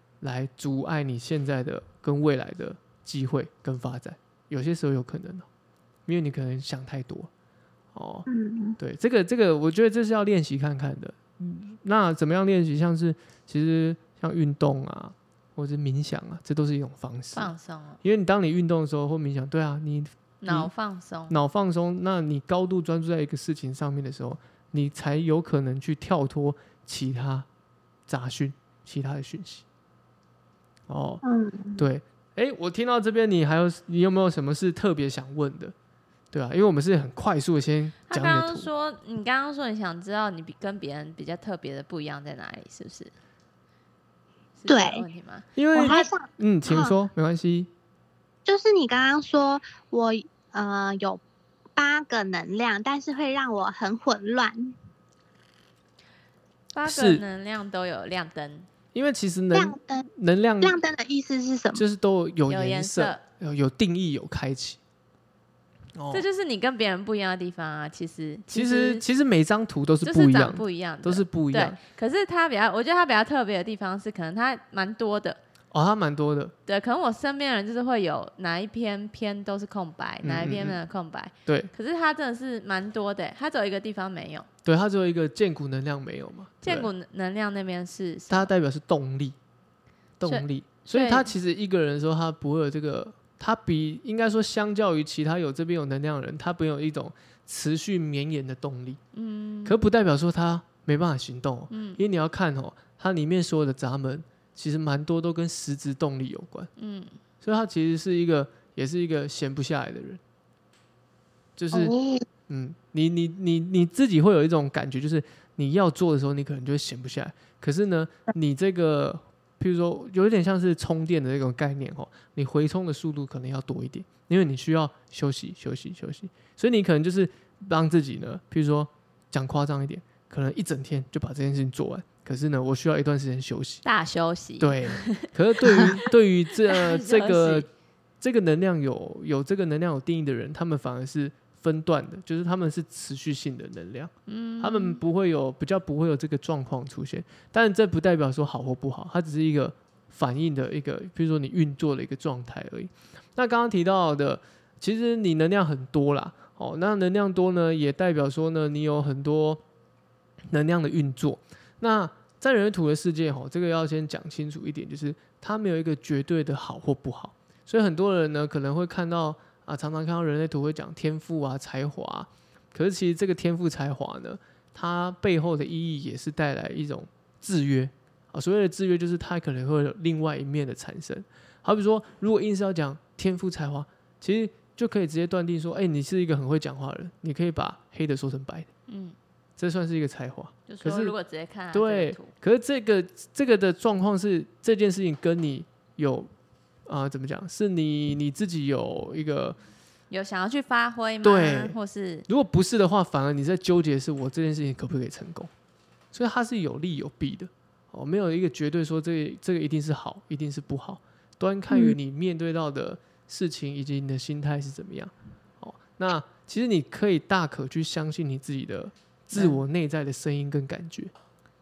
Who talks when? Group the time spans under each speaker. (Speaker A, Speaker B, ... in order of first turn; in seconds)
Speaker A: 0.2-5.5, 6.1-7.3, 7.9-8.3, 8.8-17.5, 18.0-20.7, 21.3-27.5, 28.1-29.6, 30.9-31.2, 31.8-35.7, 36.3-38.7, 45.6-47.7, 56.9-57.2, 58.9-60.8, 61.8-64.8, 66.0-66.3, 68.5-71.8, 75.7-76.5, 80.2-80.8, 84.7-86.9, 88.3-89.4, 90.2-99.0, 99.7-106.7, 107.4-110.2, 111.6-111.9, 112.5-133.8, 134.6-137.7, 138.2-159.6, 160.5-188.7, 189.6-191.1, 191.7-196.3, 196.9-199.6, 201.2-201.8, 202.3-205.5, 206.1-221.1
Speaker B: 8.3-8.8, 31.2-31.8, 44.7-45.0, 45.7-47.0, 48.5-51.2, 51.8-54.8, 59.5-60.1, 60.6-61.8, 111.7-112.2
Speaker C: 17.4-18.0, 20.4-21.4, 38.1-43.1, 44.6-45.5, 56.7-58.7, 62.5-63.2, 66.1-69.0, 70.0-75.4, 76.7-84.5, 86.6-88.5, 90.2-91.3, 99.2-99.7, 101.7-102.0, 106.8-107.2, 133.8-135.9, 136.7-137.7, 144.3-145.0, 188.9-189.2, 190.7-192.3, 200.1-202.3, 219.3-219.6